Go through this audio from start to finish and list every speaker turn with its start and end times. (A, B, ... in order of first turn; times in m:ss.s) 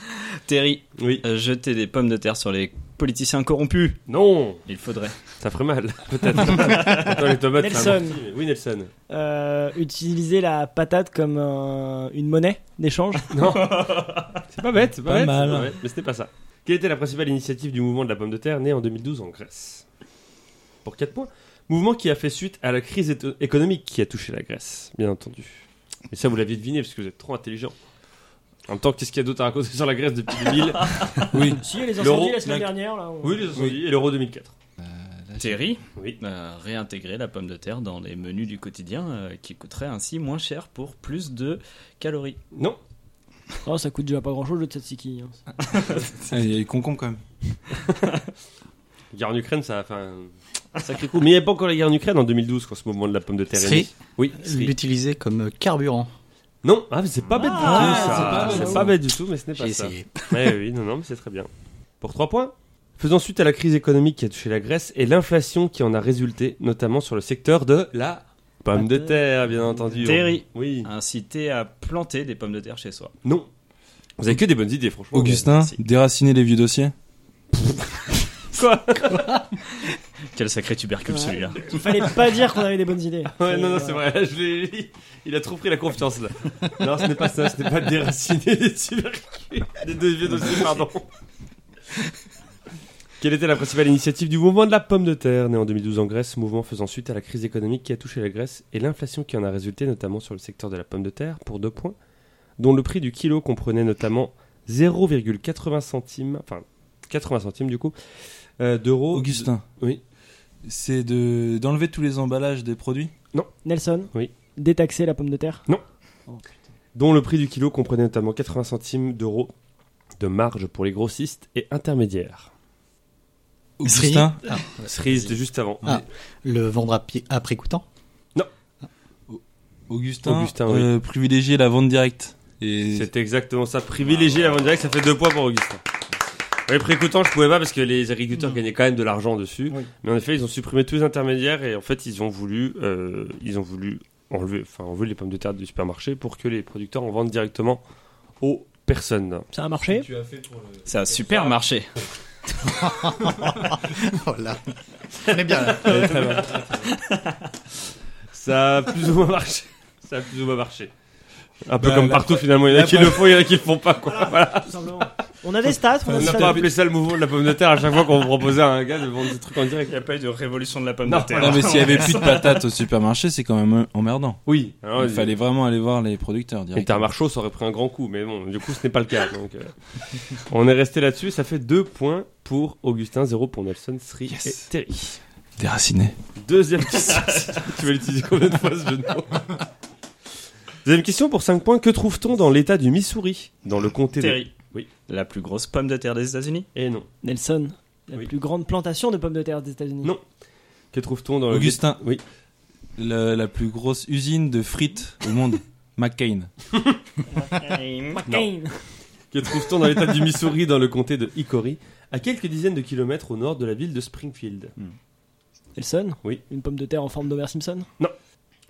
0:00.5-0:04.0 A
0:01.0-0:01.2 B
0:04.1-0:04.6 B
0:04.7-0:05.2 A
0:05.4-0:08.9 B
0:06.3-0:07.3 A
0:07.6-0:08.2 C
0:09.1-0:13.4 C
0:13.3-0:19.8 B
0:13.4-0:14.4 A
0:15.0-0:15.8 D
0:20.8-0:27.8 B
0:28.7-0:31.4 B
0:31.3-0:31.6 D
0:31.6-0:33.5 C
0:32.0-0:32.7 B
0:33.2-0:34.5 B
0:34.8-0:35.6 D
0:35.4-0:42.4 A
0:43.6-0:45.4 C
0:46.2-0:47.2 D
0:49.1-0:54.8 B
0:53.5-0:56.1 E
0:56.6-1:01.5 B
0:57.3-0:58.7 A
0:57.6-0:58.9 D
0:57.6-0:58.7 C
0:57.7-0:58.9 E
0:59.6-1:00.5 E
1:02.0-1:10.9 B
1:08.8-1:09.2 C
1:09.9-1:13.1 A
1:14.2-1:15.5 B
1:15.1-1:16.9 D
1:15.4-1:15.7 A
1:18.5-1:19.6 B
1:20.3-1:21.8 A
1:21.1-1:24.0 C
1:23.4-1:31.1 B
1:33.2-1:42.0 B
1:42.6-1:48.0 B
1:48.6-1:50.0 B
1:49.1-1:49.6 D
1:50.6-1:53.1 D
1:53.6-1:55.7 C
1:57.0-1:59.5 B
2:00.2-2:02.5 B
2:03.8-2:04.6 D
2:03.8-2:05.3 E
2:04.8-2:05.9 B
2:05.8-2:07.8 E
2:09.3-2:13.1 D
2:10.2-2:10.9 B
2:12.9-2:15.8 B
2:16.7-2:27.8 B
2:28.4-2:29.5 B
2:29.5-2:30.1 C
2:29.9-2:31.6 D
2:30.9-2:31.9 A
2:32.6-2:36.1 E
2:35.6-2:36.9 B
2:35.8-2:36.9 D
2:36.8-2:37.4 A
2:38.3-2:40.9 B
2:41.7-2:44.9 B
2:41.8-2:43.1 D
2:42.8-2:43.2 E
2:44.1-2:46.7 C
2:46.0-2:46.7 D
2:46.2-2:50.0 B
2:49.9-2:52.6 A
2:51.1-2:52.0 B
2:51.4-2:54.4 D
2:54.5-2:55.3 B
2:55.0-2:57.1 D
2:56.8-3:05.2 B
3:04.3-3:04.7 D
3:05.6-3:06.2 D
3:06.4-3:09.6 B
3:07.2-3:07.4 A
3:10.8-3:14.9 B
3:14.2-3:14.6 A
3:15.1-3:16.7 A
3:16.8-3:17.1 B
3:17.2-3:20.1 C
3:20.9-3:22.2 B
3:21.5-3:22.0 D
3:23.0-3:26.5 D
3:27.4-3:28.8 C
3:27.6-3:28.2 A
3:29.3-3:34.7 B
3:35.8-3:37.9 C